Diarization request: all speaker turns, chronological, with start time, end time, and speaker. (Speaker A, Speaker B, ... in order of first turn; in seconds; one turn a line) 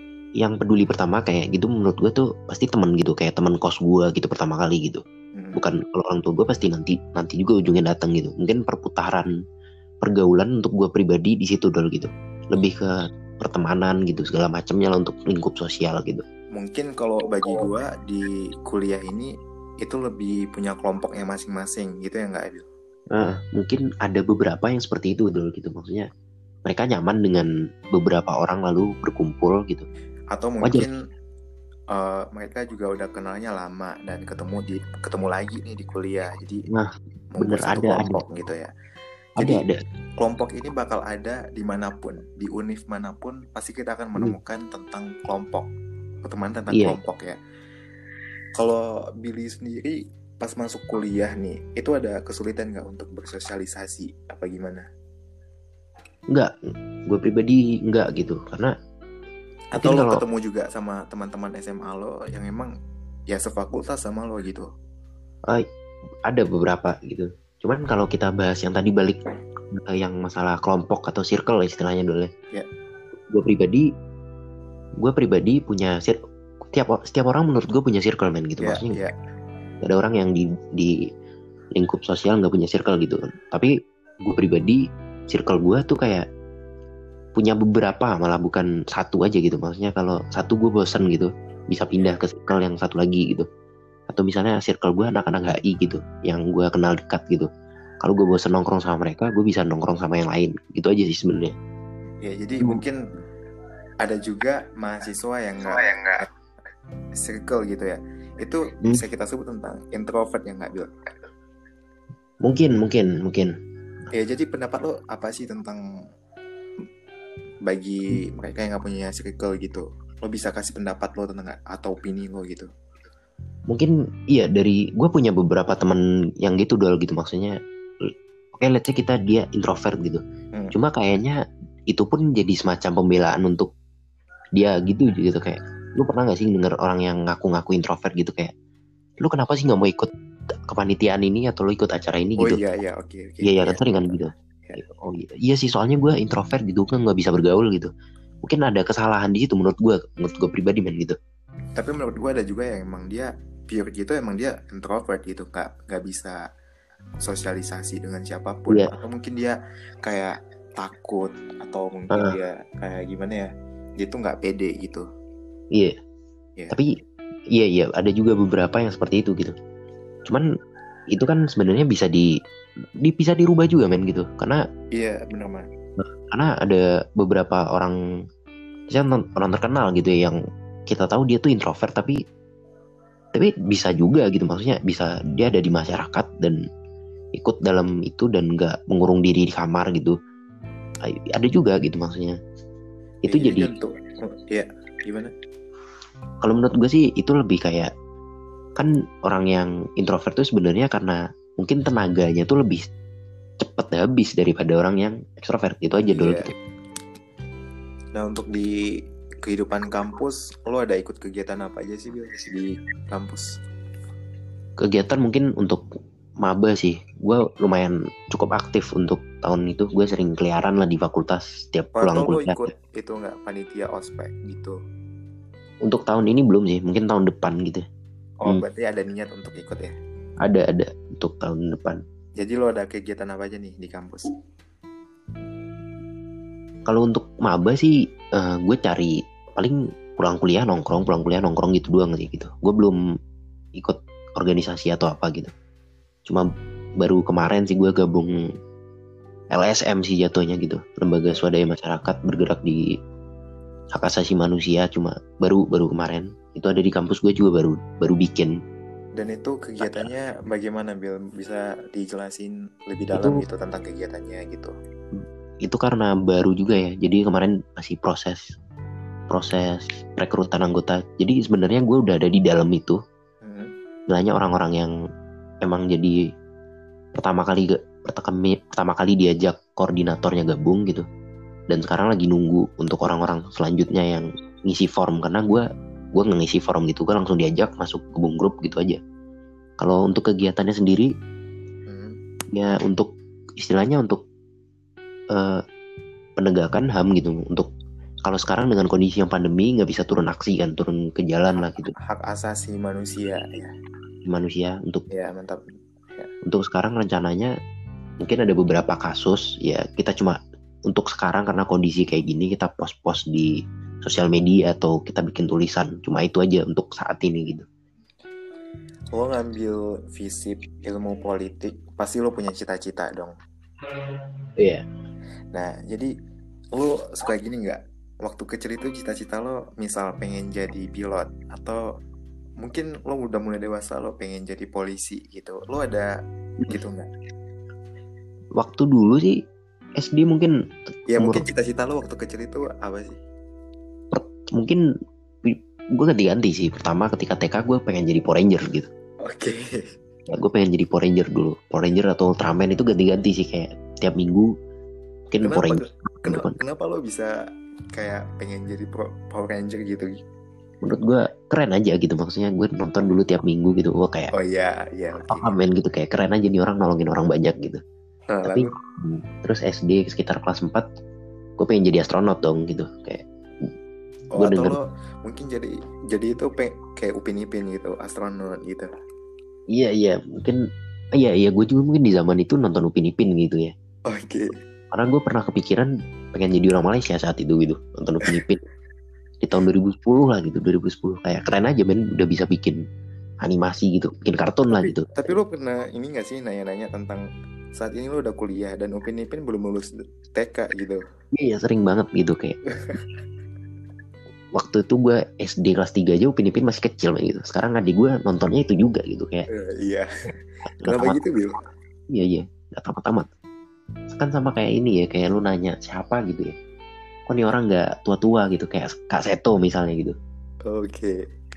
Speaker A: 0.4-5.0
Speaker B: 5.3-5.6
Speaker A: 5.5-9.3
Speaker A: 10.0-16.2
Speaker B: 16.6-22.6
Speaker A: 23.1-26.1
Speaker A: 26.6-29.9
Speaker B: 30.3-30.9
Speaker A: 30.6-30.9
Speaker B: 31.9-36.6
Speaker A: 36.7-38.2
Speaker B: 37.4-38.7
Speaker B: 39.4-39.6
Speaker A: 39.4-39.8
Speaker B: 40.2-45.7
Speaker B: 46.2-47.4
Speaker A: 46.7-47.0
Speaker B: 48.5-54.9
Speaker A: 57.0-58.7
Speaker B: 59.8-62.7
Speaker A: 59.8-60.2
Speaker B: 63.3-64.7
Speaker A: 66.3-69.2
Speaker A: 69.7-72.3
Speaker A: 73.3-73.9
Speaker A: 75.0-76.2
Speaker A: 76.7-79.0
Speaker B: 78.6-79.1
Speaker A: 79.8-81.0
Speaker A: 81.7-83.7
Speaker A: 84.2-86.3
Speaker A: 87.3-93.5
Speaker A: 94.1-97.5
Speaker A: 98.0-101.5
Speaker B: 102.2-103.0
Speaker B: 104.0-106.2
Speaker B: 107.2-110.9
Speaker A: 112.4-113.5
Speaker B: 114.1-115.8
Speaker B: 117.7-122.7
Speaker A: 123.7-130.2
Speaker A: 130.7-131.4
Speaker A: 131.9-133.7
Speaker A: 134.6-138.5
Speaker A: 139.2-140.1
Speaker A: 140.7-142.6
Speaker B: 142.4-144.8
Speaker A: 143.4-147.9
Speaker A: 148.4-151.2
Speaker B: 151.8-156.4
Speaker B: 157.2-163.5
Speaker B: 164.0-165.0
Speaker A: 167.5-169.6
Speaker A: 171.1-172.3
Speaker A: 173.0-174.6
Speaker B: 174.9-175.7
Speaker A: 176.0-177.9
Speaker A: 178.9-180.4
Speaker A: 180.9-182.2
Speaker A: 183.3-186.6
Speaker A: 187.3-190.2
Speaker A: 191.1-192.4
Speaker A: 193.2-193.7
Speaker B: 193.3-195.3
Speaker A: 196.4-197.9
Speaker A: 198.8-202.8
Speaker A: 203.6-206.5
Speaker B: 206.1-206.5
Speaker B: 208.2-208.8
Speaker B: 209.4-213.5
Speaker A: 214.8-215.8
Speaker A: 216.4-222.6
Speaker B: 222.0-224.8
Speaker A: 225.8-227.8
Speaker B: 228.4-229.9
Speaker A: 230.4-232.0
Speaker B: 232.4-234.3
Speaker A: 236.9-242.9
Speaker A: 243.8-245.5
Speaker A: 247.0-248.4
Speaker A: 249.5-252.8
Speaker A: 253.9-258.5
Speaker B: 259.2-264.7
Speaker A: 259.8-260.1
Speaker A: 265.2-268.5
Speaker A: 269.3-273.0
Speaker B: 273.4-273.7
Speaker A: 274.1-274.9
Speaker A: 275.6-276.2
Speaker A: 277.1-281.1
Speaker A: 281.7-289.0
Speaker A: 289.8-291.1
Speaker B: 291.9-292.2
Speaker A: 292.5-293.1
Speaker A: 293.6-294.2
Speaker A: 295.3-295.6
Speaker A: 296.4-297.7
Speaker A: 298.2-301.9
Speaker B: 302.0-303.7
Speaker A: 304.2-305.0
Speaker B: 305.1-305.6
Speaker A: 306.4-307.5
Speaker A: 308.2-313.5
Speaker A: 314.0-317.6
Speaker B: 319.1-323.3
Speaker A: 324.6-324.8
Speaker B: 325.5-326.1
Speaker B: 326.7-331.8
Speaker B: 332.6-336.1
Speaker B: 336.7-337.1
Speaker A: 338.6-339.4
Speaker A: 340.0-341.4
Speaker B: 341.1-343.1
Speaker A: 344.1-344.8
Speaker A: 345.4-348.9
Speaker B: 349.2-349.8
Speaker A: 350.3-354.5
Speaker A: 355.3-356.5
Speaker B: 355.4-357.3
Speaker B: 357.9-360.2
Speaker A: 360.8-364.3
Speaker B: 364.3-365.5
Speaker A: 365.3-367.8
Speaker B: 368.3-368.7
Speaker A: 368.4-370.8
Speaker A: 371.6-373.2
Speaker B: 374.4-378.9
Speaker A: 374.4-374.8
Speaker A: 379.7-380.6
Speaker A: 381.1-383.7
Speaker B: 384.1-384.5
Speaker A: 384.9-388.6
Speaker A: 389.4-392.8
Speaker A: 393.4-395.4
Speaker B: 394.7-397.2
Speaker B: 397.8-401.0
Speaker A: 401.3-402.6
Speaker A: 404.6-409.5
Speaker B: 409.5-410.1
Speaker A: 410.8-411.2
Speaker B: 410.8-411.6
Speaker A: 412.1-413.3
Speaker A: 414.1-416.5
Speaker A: 417.3-420.1
Speaker B: 420.7-421.2